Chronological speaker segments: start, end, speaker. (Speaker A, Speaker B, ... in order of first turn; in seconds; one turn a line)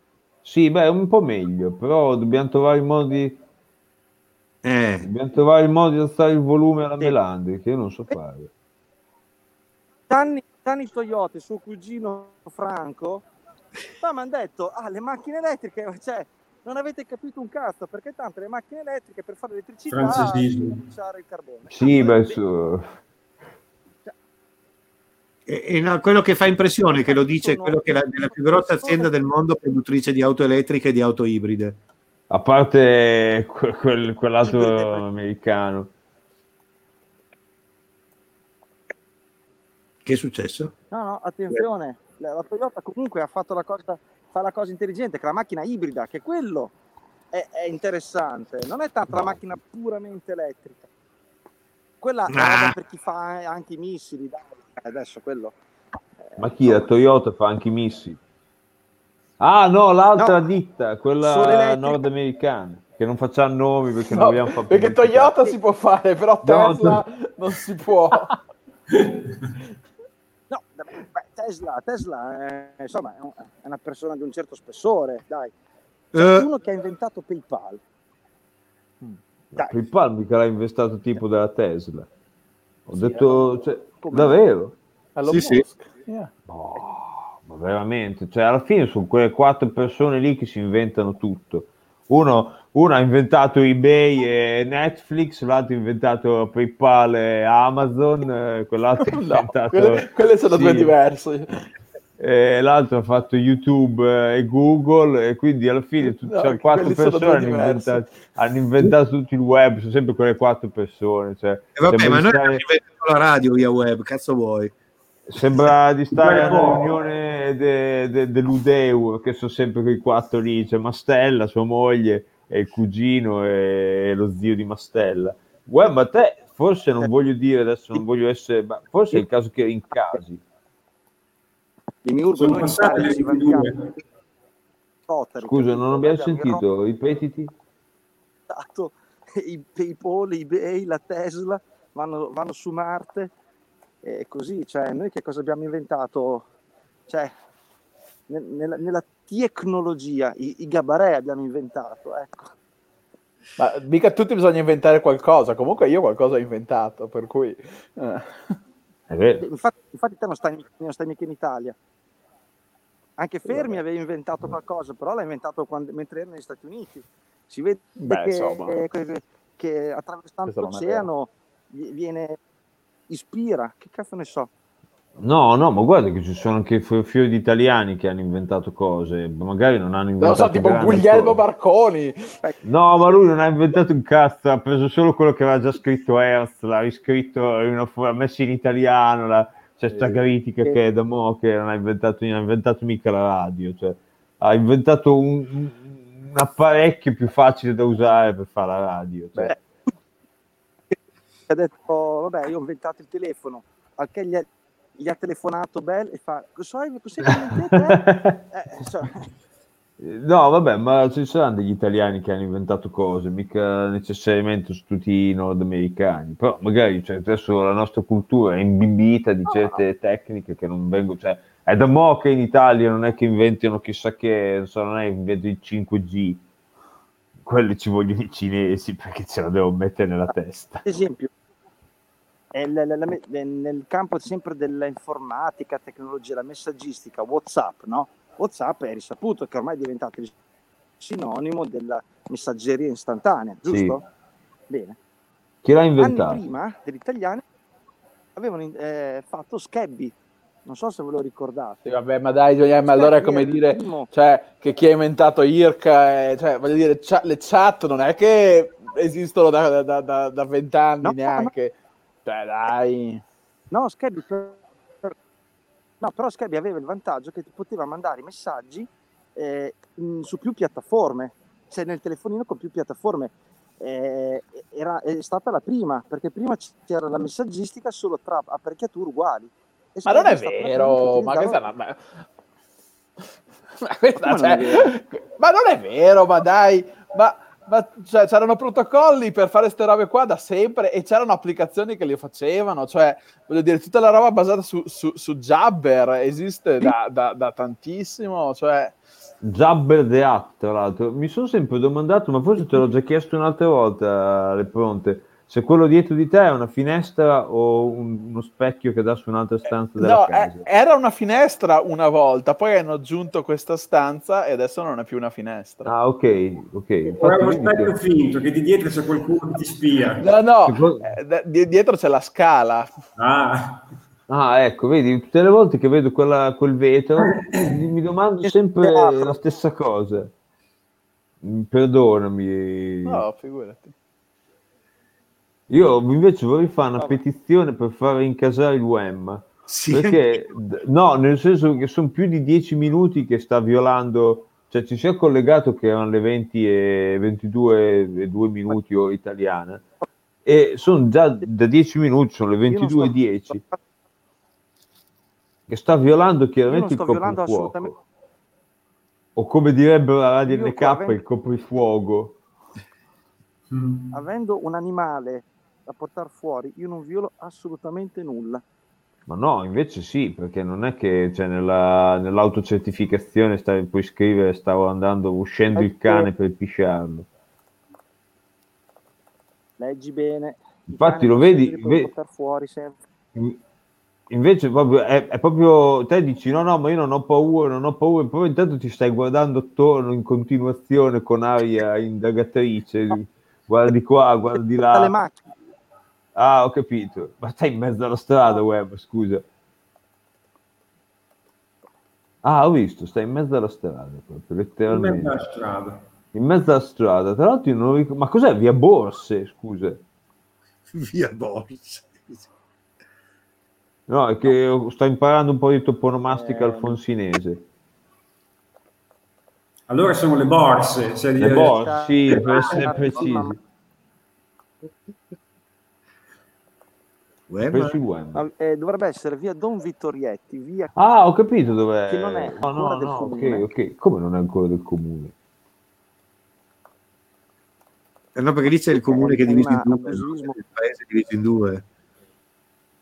Speaker A: 0.5-3.4
Speaker B: 4.6-5.1
Speaker A: 5.0-8.5
Speaker C: 10.1-13.2
Speaker C: 14.0-22.4
Speaker D: 19.9-20.9
Speaker A: 21.7-22.9
Speaker B: 25.5-31.8
Speaker C: 27.1-29.1
Speaker A: 32.3-35.9
Speaker C: 34.5-35.0
Speaker B: 40.0-40.7
Speaker C: 40.9-46.7
Speaker C: 47.3-50.9
Speaker C: 52.0-55.5
Speaker B: 52.3-52.8
Speaker A: 56.4-58.2
Speaker C: 56.6-56.9
Speaker A: 59.4-65.3
Speaker C: 61.2-62.1
Speaker E: 64.1-68.4
Speaker A: 66.4-67.0
Speaker D: 68.9-69.3
Speaker C: 70.5-75.5
Speaker B: 76.1-76.5
Speaker C: 76.1-77.8
Speaker A: 79.5-82.1
Speaker A: 82.9-84.8
Speaker C: 83.9-84.4
Speaker E: 85.2-86.3
Speaker B: 85.3-85.7
Speaker A: 86.5-100.9
Speaker E: 99.1-101.6
Speaker A: 102.2-112.6
Speaker E: 106.0-108.0
Speaker B: 111.8-114.7
Speaker A: 115.3-130.4
Speaker D: 116.1-117.0
Speaker C: 132.0-133.9
Speaker D: 132.4-133.9
Speaker C: 135.1-136.6
Speaker A: 135.4-137.5
Speaker C: 138.5-143.3
Speaker C: 144.0-146.4
Speaker C: 147.1-147.3
Speaker C: 148.3-152.5
Speaker E: 153.6-158.5
Speaker A: 159.1-159.4
Speaker C: 159.4-161.8
Speaker C: 163.2-172.4
Speaker E: 163.5-163.8
Speaker E: 168.0-168.8
Speaker E: 170.5-171.1
Speaker C: 173.1-174.5
Speaker A: 175.2-181.4
Speaker E: 180.2-182.3
Speaker A: 182.6-199.5
Speaker E: 189.9-190.2
Speaker C: 201.5-208.0
Speaker A: 207.2-208.4
Speaker C: 208.5-209.3
Speaker A: 210.0-226.4
Speaker A: 227.4-230.8
Speaker C: 230.8-231.3
Speaker C: 232.5-240.3
Speaker C: 241.0-244.0
Speaker A: 243.7-244.0
Speaker C: 244.7-245.0
Speaker A: 245.6-246.4
Speaker C: 246.0-247.4
Speaker C: 248.4-250.1
Speaker C: 250.7-251.8
Speaker E: 251.8-263.2
Speaker C: 252.9-254.1
Speaker C: 261.0-261.5
Speaker C: 263.7-265.1
Speaker C: 266.0-281.6
Speaker E: 280.1-282.2
Speaker E: 283.8-299.0
Speaker C: 284.2-284.9
Speaker A: 299.4-310.7
Speaker E: 310.0-315.9
Speaker A: 315.8-317.9
Speaker D: 317.1-320.2
Speaker E: 320.2-322.9
Speaker A: 320.7-321.1
Speaker D: 323.2-323.9
Speaker A: 324.3-330.3
Speaker D: 327.2-327.7
Speaker C: 328.4-329.4
Speaker A: 331.4-333.2
Speaker E: 333.1-333.9
Speaker A: 335.7-349.8
Speaker B: 339.7-340.4
Speaker A: 350.4-353.6
Speaker C: 352.7-353.8
Speaker A: 355.7-357.9
Speaker C: 356.7-358.0
Speaker A: 359.4-362.4
Speaker C: 360.5-361.2
Speaker D: 363.7-364.1
Speaker C: 364.1-368.6
Speaker A: 369.3-377.3
Speaker C: 375.8-376.3
Speaker C: 379.8-383.0
Speaker A: 380.9-382.1
Speaker A: 384.3-395.1
Speaker C: 394.9-395.4
Speaker A: 396.4-399.4
Speaker A: 402.4-405.5
Speaker D: 404.9-406.0
Speaker A: 406.3-410.0
Speaker B: 410.9-412.5
Speaker A: 414.1-417.6
Speaker C: 416.3-417.0
Speaker D: 419.9-421.8
Speaker A: 421.4-423.6
Speaker C: 421.6-423.6
Speaker D: 422.3-422.8
Speaker B: 427.5-428.0
Speaker A: 427.7-428.4
Speaker C: 428.4-430.9
Speaker A: 431.0-435.3
Speaker C: 432.1-433.7
Speaker B: 438.4-441.8
Speaker C: 438.9-440.6